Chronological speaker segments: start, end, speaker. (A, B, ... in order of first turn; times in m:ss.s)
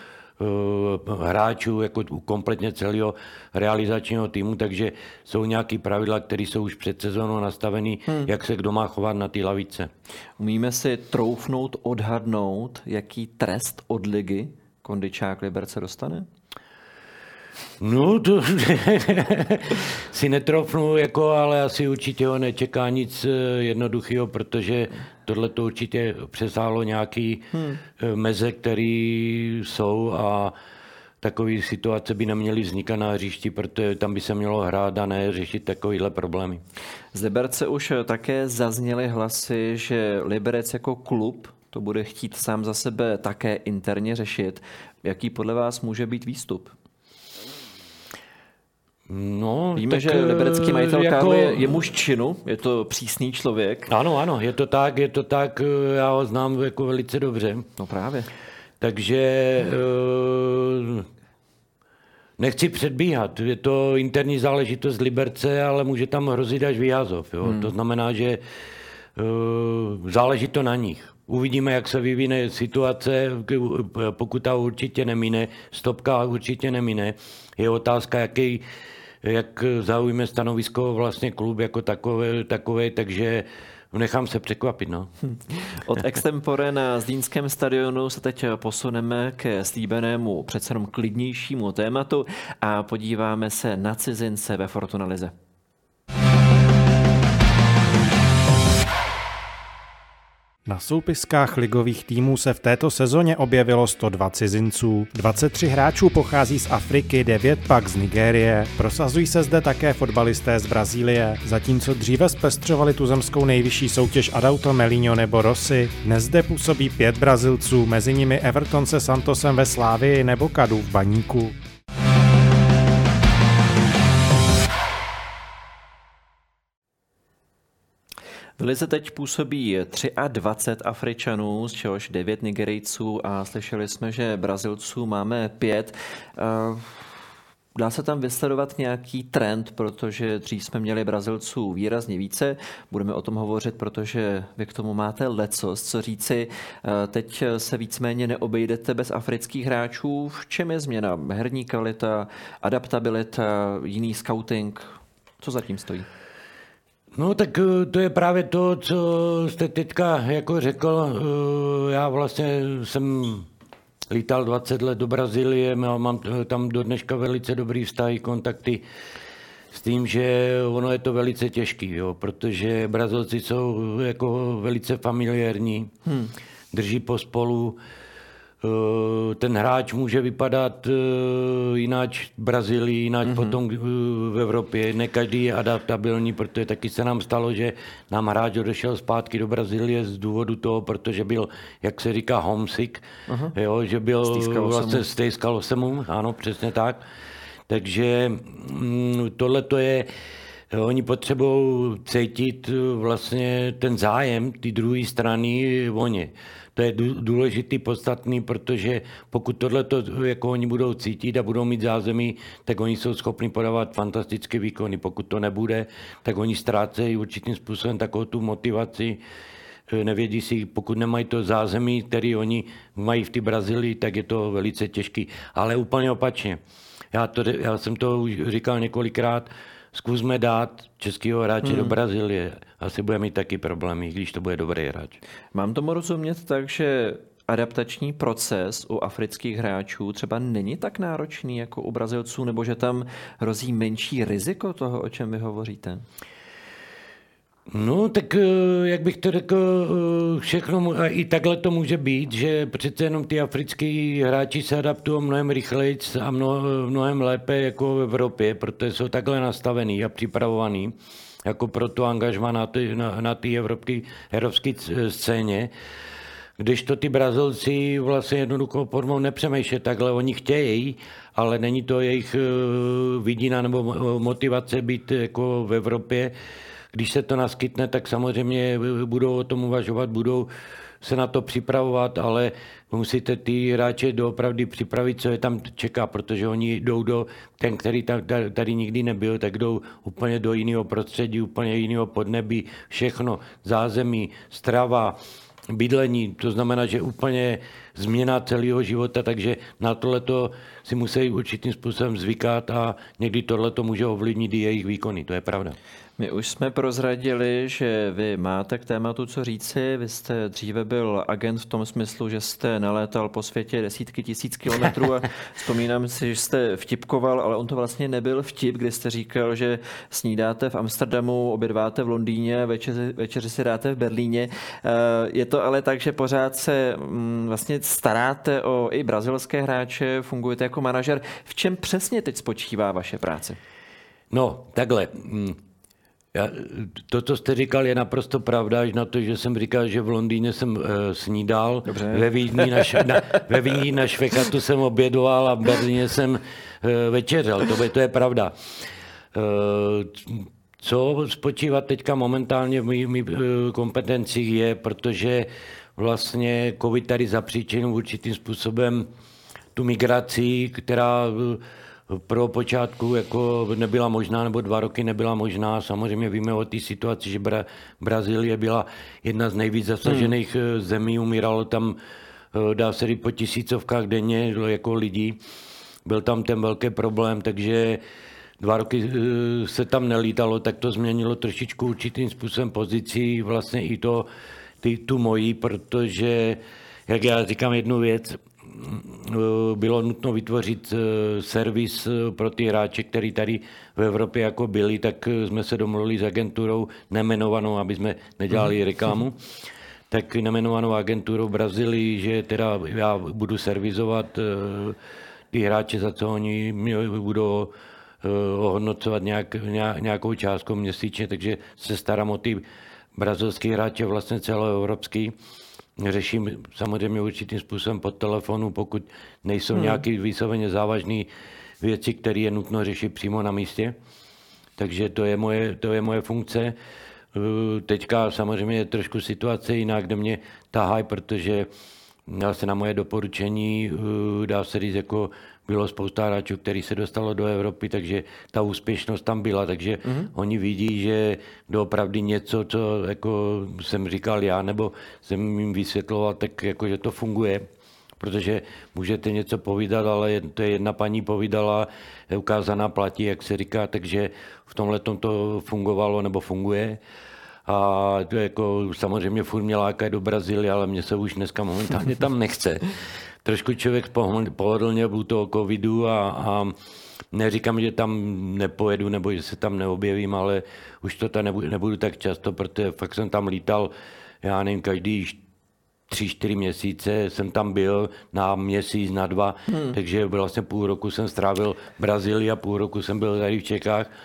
0:00.4-0:09.9 A
0:10.4-0:16.3 B
0:17.8-0:30.5 A
0:27.5-0:27.8 B
0:31.2-0:36.6 A
0:37.1-0:46.7 B
0:49.1-0:51.8 A
0:49.8-0:53.9 B
0:53.9-0:57.7 A
0:57.8-0:58.3 B
0:58.8-1:01.1 A
1:02.4-1:08.4 A
1:07.4-1:07.7 B
1:09.2-1:18.6 A
1:19.2-1:25.1 A
1:25.2-1:35.3 B
1:40.6-2:01.6 C
2:08.6-2:17.1 B
2:17.7-2:36.0 B
2:37.1-2:43.5 A
2:44.1-2:48.8 A
2:49.7-2:55.9 A
2:56.0-2:56.3 B
2:56.7-2:57.8 A
2:58.6-3:17.0 A
3:03.2-3:03.6 B
3:13.3-3:13.5 B
3:14.2-3:15.0 B
3:17.7-3:20.1 A
3:20.7-3:39.2 A
3:39.9-3:46.6 A
3:47.1-3:55.2 A
3:51.6-3:51.9 B
3:55.5-4:06.0 B
4:07.7-4:20.9 A
4:21.4-4:25.7 A
4:26.6-4:36.3 A
4:36.9-4:40.5 A
4:41.0-4:55.2 A
4:55.7-5:05.8 A
5:06.2-5:33.6 B
5:34.3-5:35.6 A
5:36.3-5:48.5 A
5:41.8-5:42.6 B
5:49.3-5:59.1 A
5:59.7-6:12.0 A
6:10.0-6:10.3 B
6:12.5-6:15.4 A
6:16.0-6:18.0 A
6:18.6-6:24.3 A
6:24.8-6:39.4 A
6:40.1-6:45.0 A
6:45.5-6:52.6 A
6:53.2-6:55.3 A
6:56.0-7:01.3 A
6:59.7-7:00.0 B
7:01.8-7:04.0 A
7:04.8-7:06.7 A
7:07.3-7:11.7 A
7:12.3-7:27.7 A
7:20.0-7:20.3 B
7:28.2-7:37.0 A
7:37.6-7:46.7 A
7:47.3-7:53.9 A
7:54.4-7:55.4 A
7:56.1-8:04.1 A
7:59.7-8:00.0 B